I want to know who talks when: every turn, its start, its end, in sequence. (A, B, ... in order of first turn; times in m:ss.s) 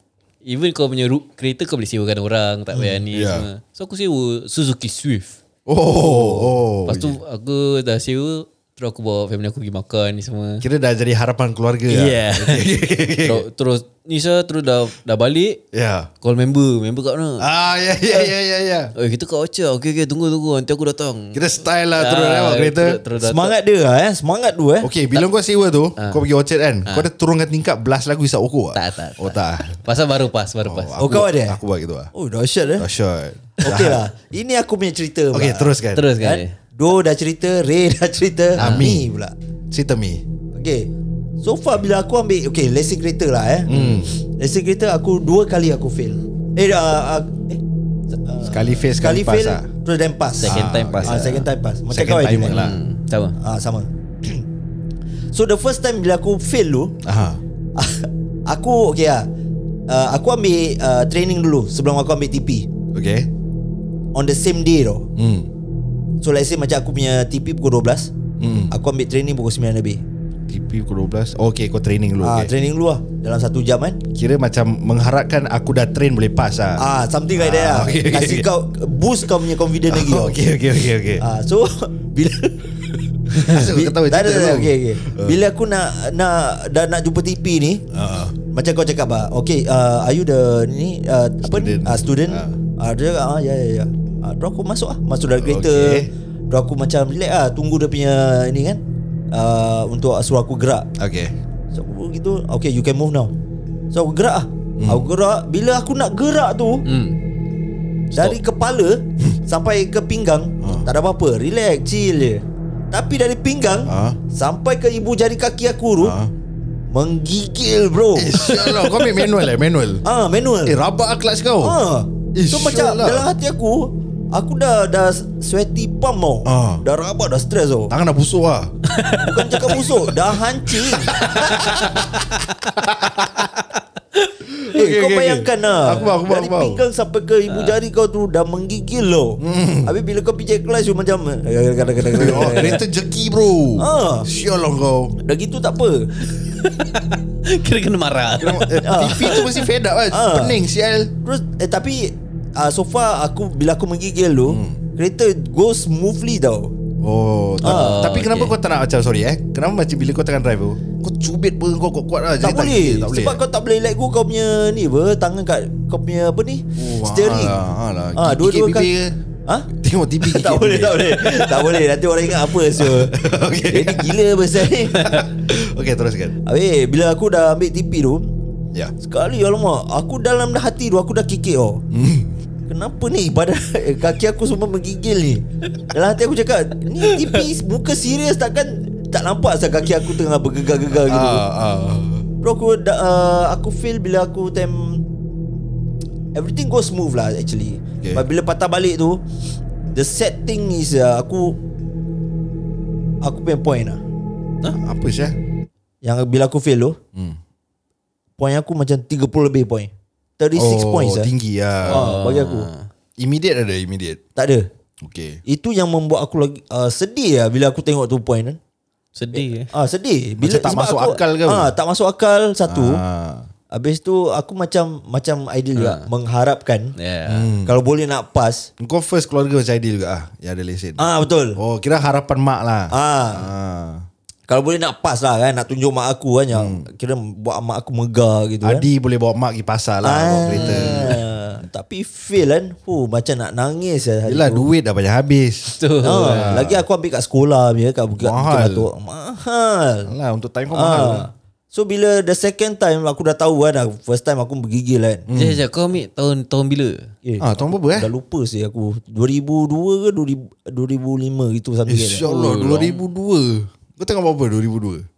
0:00.4-0:05.4 A
0:03.1-0:03.5 B
0:05.6-0:07.2 B
0:06.0-0:10.6 A
0:10.6-0:13.4 B
0:11.9-0:12.7 A
0:13.2-0:15.6 A
0:15.7-0:16.1 B
0:16.2-0:17.5 A
0:17.4-0:18.9 B
0:19.0-0:21.4 A
0:21.3-0:23.0 B
0:22.0-0:23.5 A
0:23.2-0:24.9 C
0:24.8-0:29.8 B
0:26.0-0:26.2 A
0:28.7-0:31.0 A
0:30.6-0:32.1 B
0:31.0-0:31.6 C
0:32.1-0:32.9 C
0:32.8-0:34.0 B
0:33.6-0:39.3 C
0:35.3-0:36.1 B
0:35.9-0:36.5 A
0:38.6-0:38.9 A
0:38.6-0:39.1 B
0:39.7-0:40.2 B
0:40.5-0:40.9 C
0:41.4-0:47.6 C
0:43.7-0:44.1 B
0:43.7-0:44.0 A
0:48.2-0:52.6 C
0:48.4-0:49.7 B
0:50.4-0:51.4 A
0:50.4-0:52.8 B
0:52.5-0:53.3 A
0:53.4-0:54.4 C
0:55.3-0:57.0 C
0:57.0-0:57.4 B
0:57.8-0:59.3 C
0:59.9-1:02.7 C
1:02.9-1:03.3 B
1:04.1-1:05.1 C
1:05.2-1:05.5 B
1:06.2-1:08.1 C
1:08.4-1:08.7 B
1:08.7-1:10.0 C
1:10.5-1:12.5 B
1:12.2-1:14.0 C
1:14.1-1:18.5 B
1:16.8-1:20.4 C
1:19.9-1:21.2 B
1:21.2-1:22.7 C
1:23.3-1:25.4 B
1:23.3-1:27.8 C
1:27.9-1:28.4 B
1:28.5-1:38.8 C
1:31.4-1:32.6 B
1:35.4-1:36.1 B
1:39.3-1:40.9 C
1:41.0-1:41.3 B
1:41.7-1:43.3 C
1:43.9-1:46.8 C
1:44.8-1:45.0 B
1:46.8-1:47.2 A
1:48.1-1:56.2 C
1:50.6-1:50.9 B
1:53.9-1:54.2 B
1:56.0-1:56.3 B
1:56.9-1:58.8 C
1:58.1-2:00.0 B
2:00.0-2:00.8 C
2:00.6-2:01.8 B
2:01.6-2:07.9 C
2:02.3-2:03.3 B
2:06.4-2:06.8 B
2:07.9-2:08.7 B
2:08.9-2:09.9 A
2:09.2-2:12.0 C
2:11.1-2:12.0 B
2:11.2-2:12.0 A
2:12.7-2:13.5 B
2:14.5-2:16.8 B
2:14.7-2:22.8 C
2:17.5-2:17.7 A
2:19.4-2:19.9 B
2:22.1-2:25.1 B
2:23.8-2:24.3 C
2:25.2-2:26.1 C
2:26.2-2:29.7 A
2:28.4-2:31.1 B
2:28.8-2:29.4 C
2:30.1-2:30.6 C
2:31.2-2:36.7 C
2:34.5-2:34.8 B
2:37.0-2:43.4 B
2:37.6-2:38.0 C
2:37.6-2:38.5 A
2:42.4-2:47.6 C
2:46.8-2:49.2 B
2:48.2-2:48.9 C
2:49.7-2:51.7 B
2:50.2-2:53.2 C
2:52.4-2:54.2 B
2:53.7-2:55.1 C
2:54.9-2:56.3 B
2:56.4-2:58.3 C
2:59.0-3:01.8 C
3:01.9-3:02.3 B
3:02.7-3:11.4 C
3:11.0-3:12.2 B
3:12.4-3:15.0 C
3:16.3-3:19.2 C
3:19.9-3:21.6 C
3:23.2-3:24.0 C
3:24.7-3:25.4 B
3:26.0-3:27.0 C
3:28.4-3:31.3 C
3:30.5-3:32.1 B
3:31.8-3:32.9 A
3:31.9-3:32.7 C
3:33.2-3:34.2 B
3:34.4-3:34.7 C
3:35.0-3:35.4 B
3:35.4-3:38.6 C
3:39.1-3:39.7 A
3:39.3-3:43.0 C
3:40.4-3:41.7 B
3:42.7-3:43.5 B
3:43.7-3:46.9 C
3:45.7-3:46.1 A
3:47.0-3:47.5 A
3:47.2-3:47.7 B
3:47.6-3:48.7 C
3:48.8-3:51.0 B
3:51.0-3:51.6 C
3:51.6-3:54.0 B
3:52.9-3:53.5 C
3:54.5-3:58.9 C
3:56.5-3:56.9 B
3:58.6-4:01.2 B
4:00.0-4:04.7 C
4:00.5-4:01.2 A
4:04.2-4:06.8 B
4:05.7-4:06.6 A
4:06.0-4:10.1 C
4:08.2-4:08.9 B
4:10.0-4:11.3 B
4:10.7-4:15.2 C
4:15.3-4:15.6 B
4:15.3-4:17.1 A
4:17.2-4:22.2 C
4:17.4-4:18.1 B
4:21.9-4:25.0 B
4:22.2-4:23.0 A